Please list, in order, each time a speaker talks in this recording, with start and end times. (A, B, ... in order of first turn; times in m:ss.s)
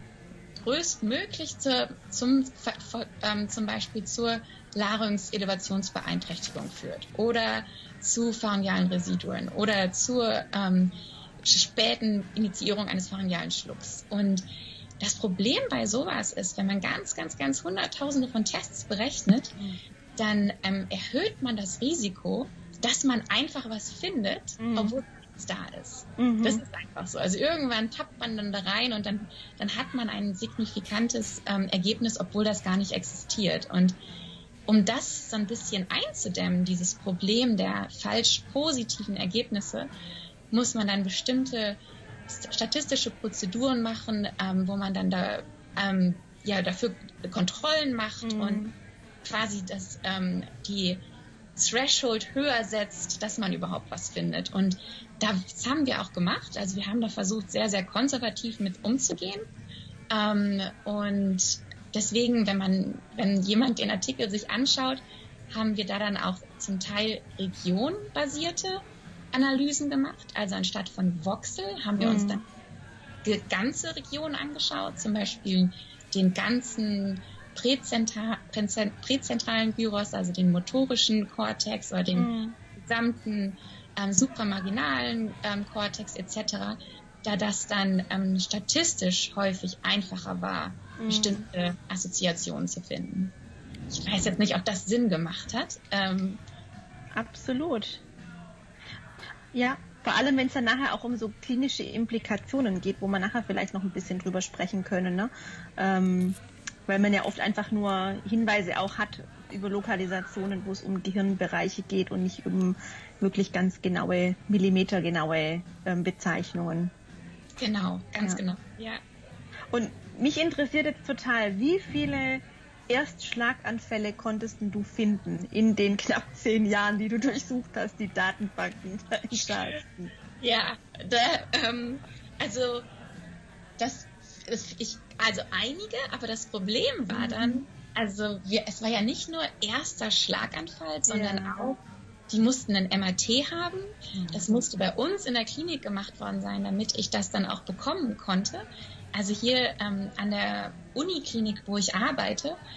0:00.6-0:14.4 A
0:15.0-0:19.6 A
0:20.2-0:34.0 A
0:24.6-0:25.0 B
0:26.2-0:26.6 B
0:34.7-0:39.9 A
0:40.5-0:48.7 A
0:48.2-0:48.7 B
0:49.2-0:51.0 A
0:51.6-0:59.4 A
1:00.1-1:08.8 A
1:09.3-1:12.4 A
1:12.0-1:12.4 B
1:13.2-1:33.3 A
1:22.2-1:22.6 B
1:31.0-1:31.5 B
1:33.9-1:36.4 A
1:37.2-1:38.0 B
1:39.5-1:56.9 B
1:57.6-1:59.0 A
1:59.7-2:10.1 B
2:10.4-2:12.9 A
2:13.8-2:32.6 A
2:17.1-2:17.6 B
2:21.1-2:21.8 B
2:24.2-2:24.6 B